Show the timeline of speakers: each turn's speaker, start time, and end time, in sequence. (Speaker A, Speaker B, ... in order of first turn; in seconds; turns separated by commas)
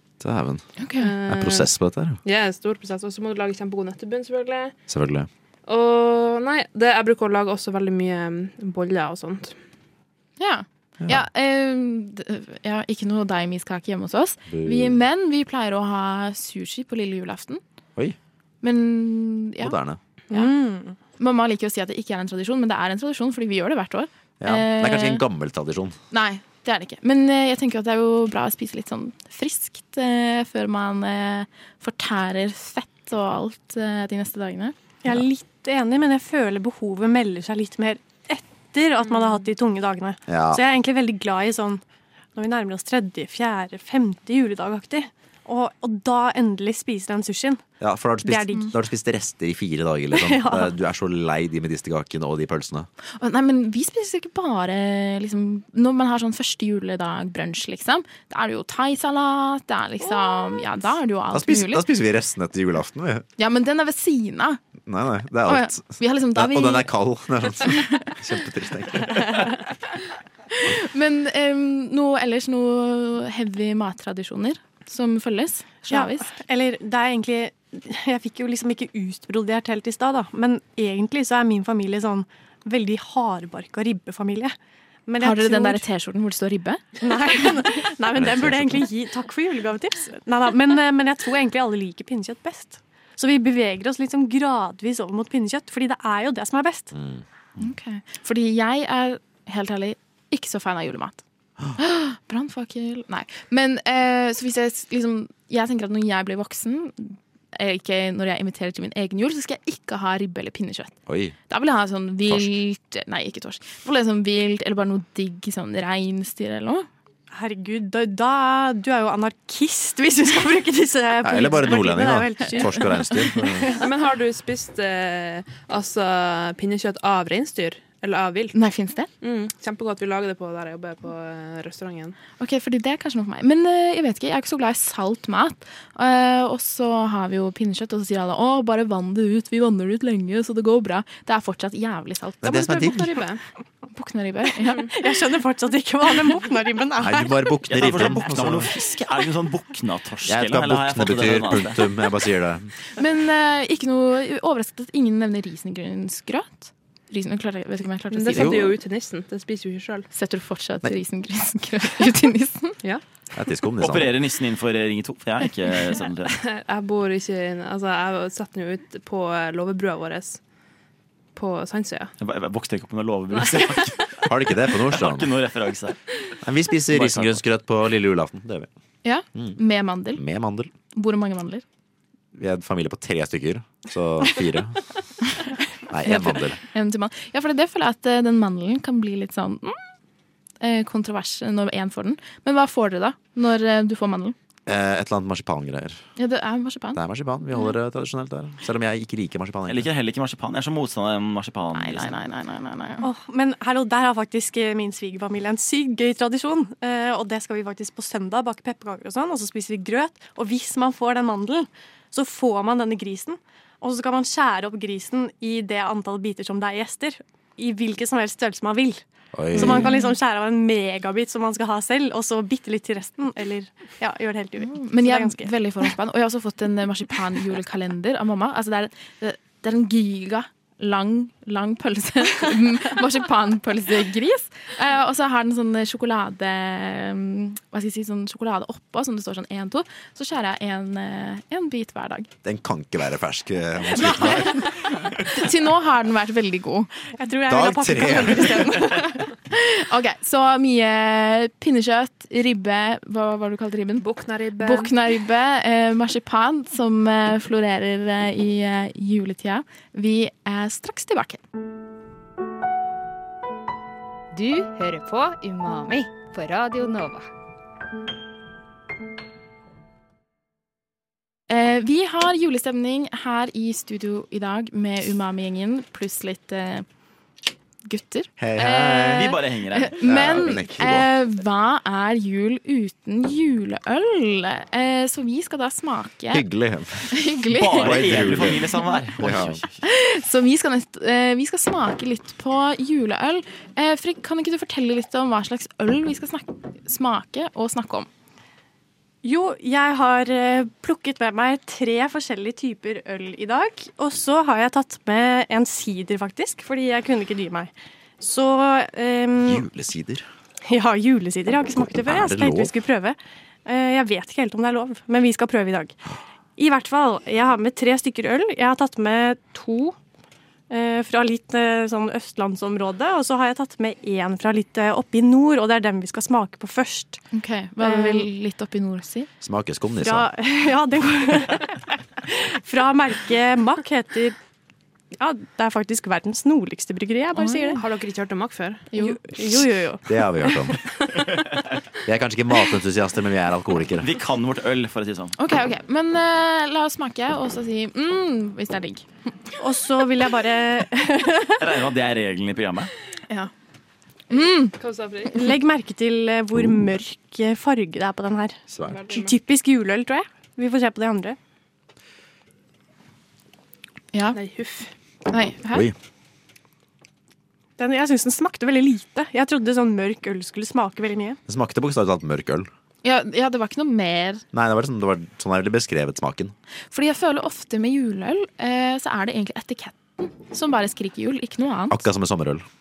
Speaker A: 0.2-0.6, Speaker B: 0.8-1.1, Speaker C: 1.0-1.7, Speaker A: 1.3-2.2, Speaker C: 2.2-4.7, Speaker A: 4.9-5.3, Speaker C: 5.7-9.6, Speaker B: 10.4-17.6, Speaker A: 14.5-15.0, Speaker B: 18.6-19.8, Speaker A: 19.6-20.0, Speaker D: 20.3-21.0, Speaker B: 21.2-25.2, Speaker A: 24.4-25.9, Speaker B: 26.1-34.7, Speaker D: 35.0-41.8, Speaker A: 40.3-40.6, Speaker D: 42.3-47.6, Speaker A: 47.8-52.9, Speaker D: 48.2-48.7, Speaker D: 50.1-50.7, Speaker B: 53.2-61.8, Speaker A: 61.3-63.2, Speaker B: 63.4-64.6, Speaker A: 64.8-69.5, Speaker B: 65.5-66.9, Speaker B: 67.6-68.1, Speaker B: 70.5-76.3, Speaker D: 75.9-84.5, Speaker D: 85.1-85.8, Speaker B: 85.2-86.8, Speaker D: 87.0-96.9, Speaker A: 88.1-88.8, Speaker A: 96.9-97.2, Speaker B: 97.6-101.2, Speaker B: 101.8-110.9, Speaker A: 111.1-111.3, Speaker B: 111.5-116.9, Speaker A: 112.3-112.5, Speaker D: 117.3-123.8, Speaker A: 121.2-123.7, Speaker C: 123.8-128.6, Speaker B: 128.5-129.1, Speaker C: 129.2-132.2, Speaker B: 132.4-143.1, Speaker A: 142.4-143.1, Speaker C: 142.7-143.4, Speaker B: 143.9-144.9, Speaker D: 144.9-148.2, Speaker A: 147.0-148.7, Speaker E: 147.7-151.8, Speaker A: 150.3-152.7, Speaker B: 152.9-158.7, Speaker C: 158.1-160.1, Speaker A: 158.3-158.7, Speaker B: 160.1-162.8, Speaker A: 163.3-164.2, Speaker E: 163.8-166.3, Speaker C: 166.2-170.4, Speaker C: 171.3-172.1, Speaker E: 172.2-176.0, Speaker C: 173.4-173.9, Speaker A: 174.2-175.3, Speaker A: 176.4-178.7, Speaker E: 176.9-177.4, Speaker B: 179.0-180.2, Speaker A: 180.1-180.7, Speaker B: 180.9-181.6, Speaker A: 182.3-184.8, Speaker A: 185.9-186.6, Speaker B: 186.0-189.8, Speaker B: 190.6-194.3, Speaker A: 194.7-196.0, Speaker B: 196.2-197.0, Speaker A: 196.9-199.9, Speaker E: 199.7-202.1, Speaker B: 201.7-203.1, Speaker D: 203.0-225.5, Speaker A: 219.3-219.9, Speaker B: 219.5-220.1, Speaker B: 224.6-242.3, Speaker A: 242.4-244.8, Speaker B: 243.9-246.9, Speaker D: 247.2-249.3, Speaker A: 247.5-248.9, Speaker B: 249.5-254.1, Speaker C: 254.0-254.9, Speaker B: 254.6-261.4, Speaker F: 264.3-267.3, Speaker B: 271.5-276.9, Speaker B: 277.8-286.4, Speaker A: 278.4-279.4, Speaker E: 279.1-280.0, Speaker A: 280.0-281.1, Speaker A: 286.3-287.1, Speaker B: 287.1-288.2, Speaker E: 287.5-289.8, Speaker A: 287.7-289.6, Speaker B: 289.8-298.1, Speaker D: 299.2-309.6, Speaker A: 309.4-310.3, Speaker D: 310.6-316.0, Speaker A: 311.7-312.7, Speaker D: 316.6-319.9, Speaker D: 320.7-327.2, Speaker B: 327.3-329.3, Speaker D: 327.8-328.3, Speaker A: 329.4-330.3, Speaker D: 330.0-334.3, Speaker D: 335.2-337.8, Speaker B: 337.4-337.8, Speaker C: 337.8-338.9, Speaker B: 338.9-339.2, Speaker D: 338.9-340.1, Speaker A: 340.1-340.8, Speaker A: 342.0-344.1, Speaker E: 344.0-345.4, Speaker B: 345.4-349.1, Speaker D: 349.6-351.7, Speaker E: 351.6-352.9, Speaker B: 354.3-354.7, Speaker C: 354.8-355.4, Speaker D: 355.3-361.4, Speaker A: 358.7-359.0, Speaker C: 358.8-359.4, Speaker B: 364.1-364.4, Speaker C: 364.3-364.9, Speaker B: 365.3-365.9, Speaker D: 367.8-371.4, Speaker A: 371.5-372.7, Speaker B: 373.0-374.4, Speaker A: 374.5-376.5, Speaker B: 376.9-382.0, Speaker A: 381.9-382.6